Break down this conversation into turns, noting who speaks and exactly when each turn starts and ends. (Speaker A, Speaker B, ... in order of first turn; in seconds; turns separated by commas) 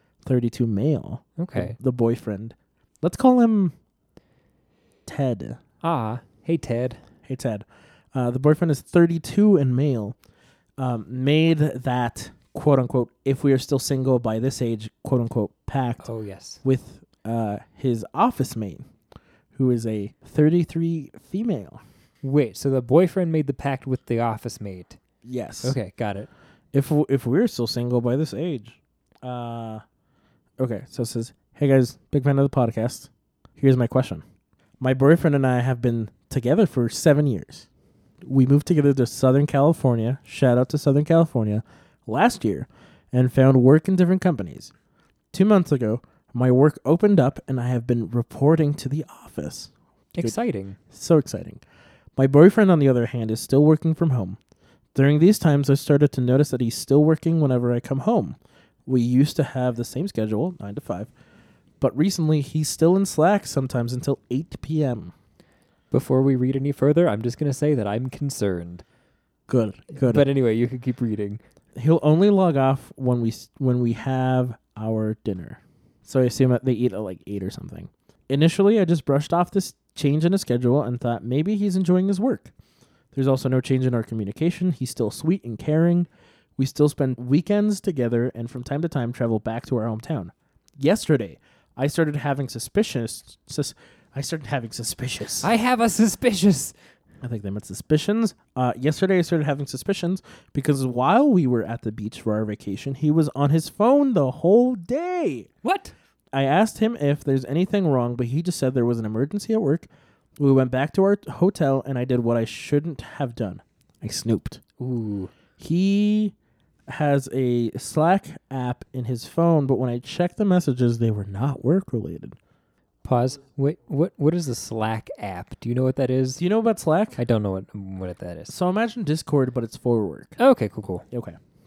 Speaker A: 0.2-3.7, Speaker B: 1.4-1.8, Speaker A: 5.0-5.6, Speaker B: 5.8-7.0, Speaker A: 7.2-10.2, Speaker A: 10.8-16.0, Speaker B: 16.0-16.6, Speaker A: 16.6-18.9, Speaker A: 19.5-21.8, Speaker B: 22.2-25.0, Speaker A: 25.2-25.8, Speaker B: 25.6-26.3, Speaker A: 26.7-29.8, Speaker A: 30.6-34.2, Speaker A: 34.8-37.7, Speaker A: 38.2-44.7, Speaker A: 45.3-50.3, Speaker B: 50.1-50.8, Speaker A: 50.9-51.6, Speaker A: 52.1-54.4, Speaker A: 54.9-61.1, Speaker A: 61.8-65.1, Speaker B: 65.9-68.8, Speaker A: 69.5-70.3, Speaker B: 70.0-71.4, Speaker A: 71.7-82.5, Speaker A: 83.1-95.5, Speaker B: 95.4-96.7, Speaker A: 97.2-105.5, Speaker B: 105.6-105.9, Speaker A: 106.3-114.6, Speaker B: 114.8-115.3, Speaker A: 115.6-116.3, Speaker A: 116.9-122.4, Speaker B: 123.0-126.4, Speaker A: 126.4-127.2, Speaker B: 127.2-128.5, Speaker A: 128.5-130.3, Speaker B: 130.4-131.0, Speaker A: 131.1-131.4